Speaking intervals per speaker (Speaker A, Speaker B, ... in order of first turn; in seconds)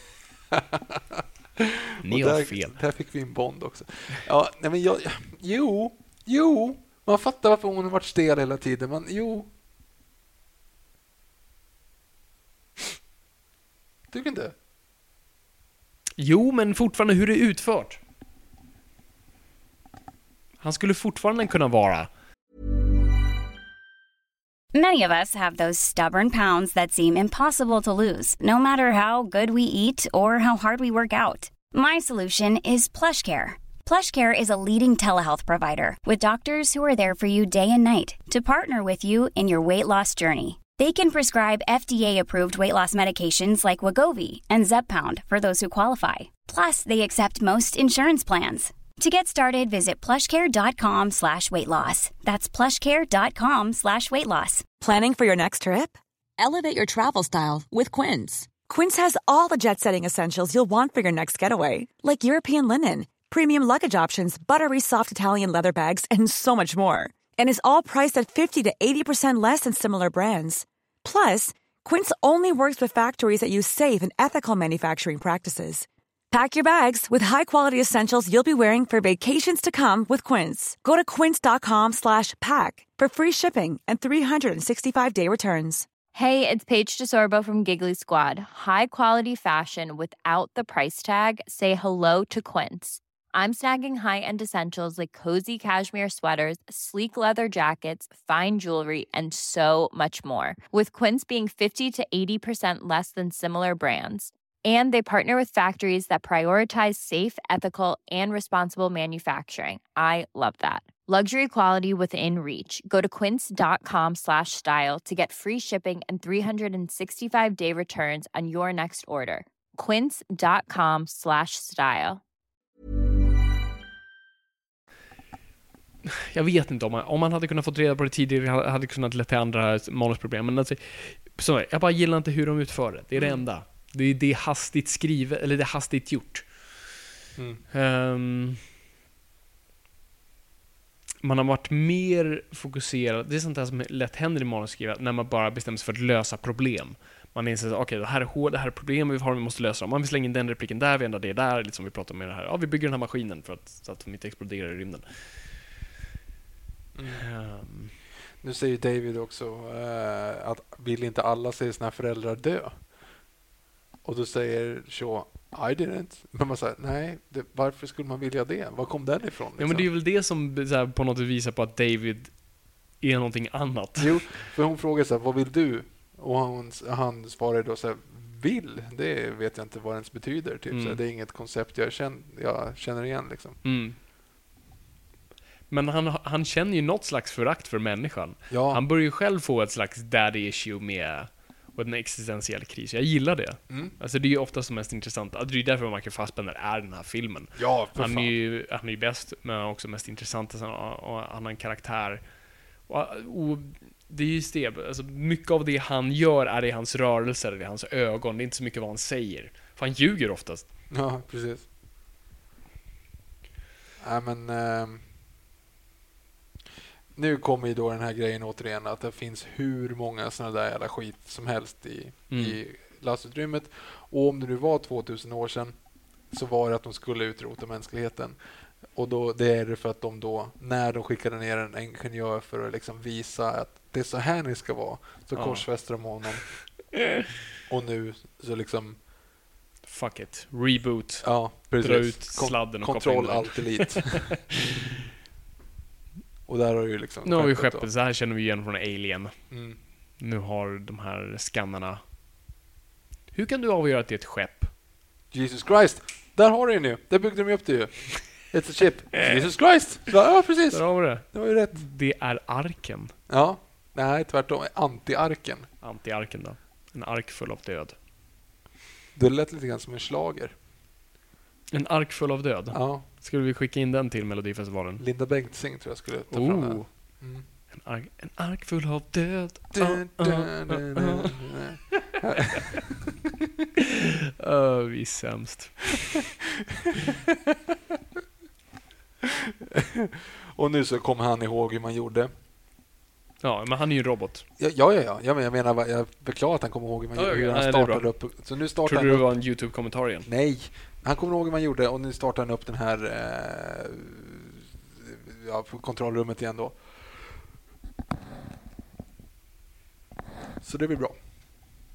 Speaker A: 0.5-9.5, 14.1-14.5, 133.2-133.4, 137.3-137.6, 156.9-157.2, 158.4-162.9, 164.0-169.9, 174.0-183.6, 188.5-188.8, 193.7-193.9, 197.6-198.3, 210.9-211.7, 214.0-215.0, 217.1-225.8, 226.3-228.4, 228.9-236.5, 237.7-239.0, 241.2-244.6, 246.5-247.9, 249.5-249.8, 255.3-261.8, 263.3-265.7, 269.1-270.5, 272.7-273.0, 275.0-277.4, 279.7-283.1, 289.7-292.3, 294.6-299.3, 300.2-306.8, 310.6-311.2
Speaker B: 2.0-2.8, 16.2-18.0, 20.6-22.1, 126.0-136.8, 137.7-138.6, 141.2-155.0, 157.1-157.9, 169.6-174.3, 180.7-181.0, 183.6-183.9, 185.7-202.2, 202.9-210.7, 222.3-222.6, 235.3-235.7, 236.9-237.2, 239.8-244.9, 247.2-249.3, 250.2-252.0, 253.3-254.7, 259.1-259.5, 260.7-263.1, 265.8-267.9, 271.7-275.0, 276.3-282.0, 284.4-286.2, 293.4-294.4, 297.1-298.1, 298.8-300.3
Speaker C: 24.7-54.6
Speaker D: 54.8-85.9
Speaker E: 86.1-122.2